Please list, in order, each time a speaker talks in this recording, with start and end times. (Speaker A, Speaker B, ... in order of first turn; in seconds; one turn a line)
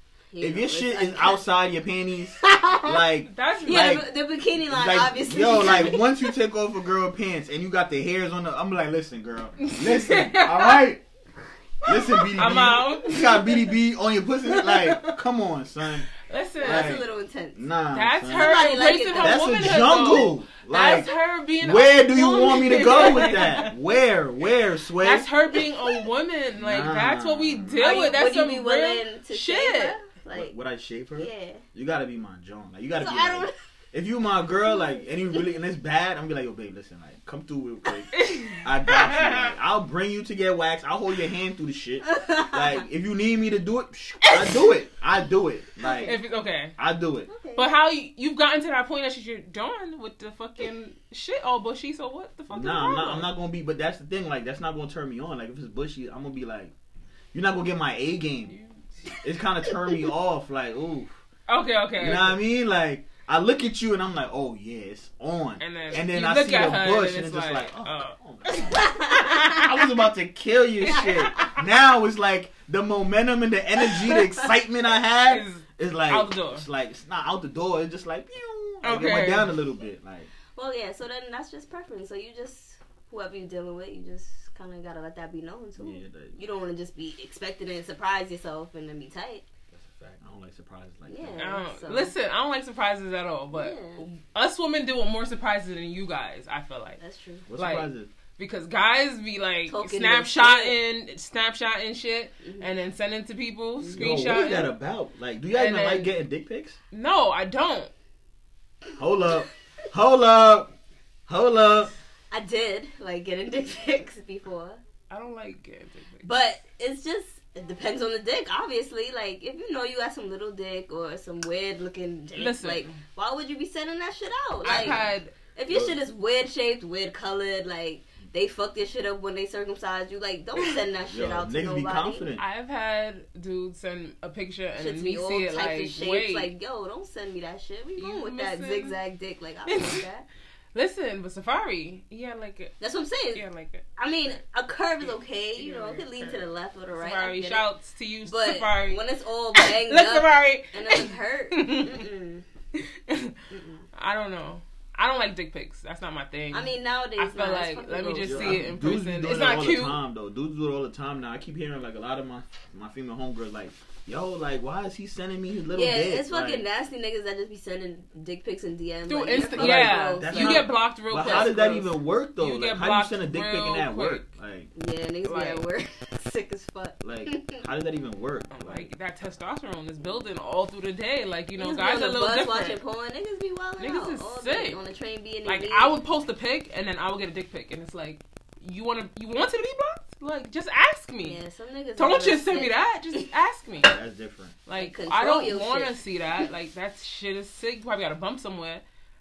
Speaker A: 0.3-1.4
Speaker B: 0.4-11.0
Speaker A: 2.4-3.0
Speaker C: 3.3-4.0
Speaker A: 3.6-6.1
Speaker C: 9.6-10.8
Speaker B: 11.8-16.1
Speaker C: 11.9-13.6
Speaker C: 14.5-15.2
Speaker C: 16.2-16.9
Speaker A: 16.6-17.6
Speaker B: 16.6-25.3
Speaker C: 17.9-23.7
Speaker A: 18.3-20.0
Speaker A: 22.9-23.4
Speaker C: 25.0-30.0
Speaker B: 26.6-28.2
Speaker A: 27.8-30.5
Speaker B: 30.3-46.2
Speaker A: 31.2-31.6
Speaker A: 33.0-33.5
Speaker A: 34.7-35.0
Speaker C: 38.1-39.5
Speaker A: 42.0-42.8
Speaker A: 45.8-46.1
Speaker C: 46.0-46.8
Speaker B: 46.8-47.3
Speaker A: 47.3-47.7
Speaker C: 47.5-53.3
Speaker B: 52.5-56.7
Speaker B: 57.3-58.5
Speaker C: 58.5-59.1
Speaker B: 59.2-61.1
Speaker C: 61.5-62.4
Speaker B: 62.0-80.3
Speaker C: 65.6-69.6
Speaker A: 68.7-69.6
Speaker C: 70.9-71.6
Speaker C: 75.3-76.7
Speaker C: 78.8-79.5
Speaker A: 80.5-89.5
Speaker B: 85.8-86.4
Speaker B: 89.7-91.5
Speaker A: 91.1-92.1
Speaker C: 91.4-97.0
Speaker A: 93.5-94.0
Speaker A: 97.0-97.5
Speaker B: 97.5-98.1
Speaker C: 97.6-104.7
Speaker A: 99.7-100.8
Speaker A: 102.4-102.7
Speaker A: 103.8-104.1
Speaker B: 104.0-106.8
Speaker C: 105.5-106.2
Speaker C: 106.9-107.9
Speaker B: 109.0-110.7
Speaker B: 111.3-111.9
Speaker A: 112.3-114.8
Speaker C: 115.1-116.3
Speaker A: 116.2-132.3
Speaker C: 122.4-123.0
Speaker C: 124.6-125.3
Speaker B: 124.7-125.1
Speaker B: 125.7-126.0
Speaker B: 131.1-132.4
Speaker C: 132.4-136.5
Speaker A: 134.8-140.3
Speaker C: 138.0-139.0
Speaker C: 139.7-140.0
Speaker C: 140.7-142.8
Speaker A: 142.8-143.4
Speaker C: 143.3-144.4
Speaker A: 144.0-147.7
Speaker C: 145.0-149.0
Speaker A: 148.3-152.4
Speaker C: 149.5-152.1
Speaker C: 152.8-153.4
Speaker A: 153.5-153.8
Speaker C: 153.9-160.0
Speaker A: 156.5-158.7
Speaker B: 158.2-166.7
Speaker A: 165.7-171.6
Speaker C: 169.1-174.3
Speaker B: 169.6-174.7
Speaker A: 174.8-177.6
Speaker C: 175.2-175.7
Speaker B: 177.0-178.9
Speaker C: 178.5-182.8
Speaker A: 181.6-186.0
Speaker C: 183.8-184.8
Speaker C: 185.4-191.4
Speaker A: 191.2-193.3
Speaker C: 192.0-194.0
Speaker B: 193.8-194.6
Speaker C: 194.7-198.8
Speaker A: 194.8-196.4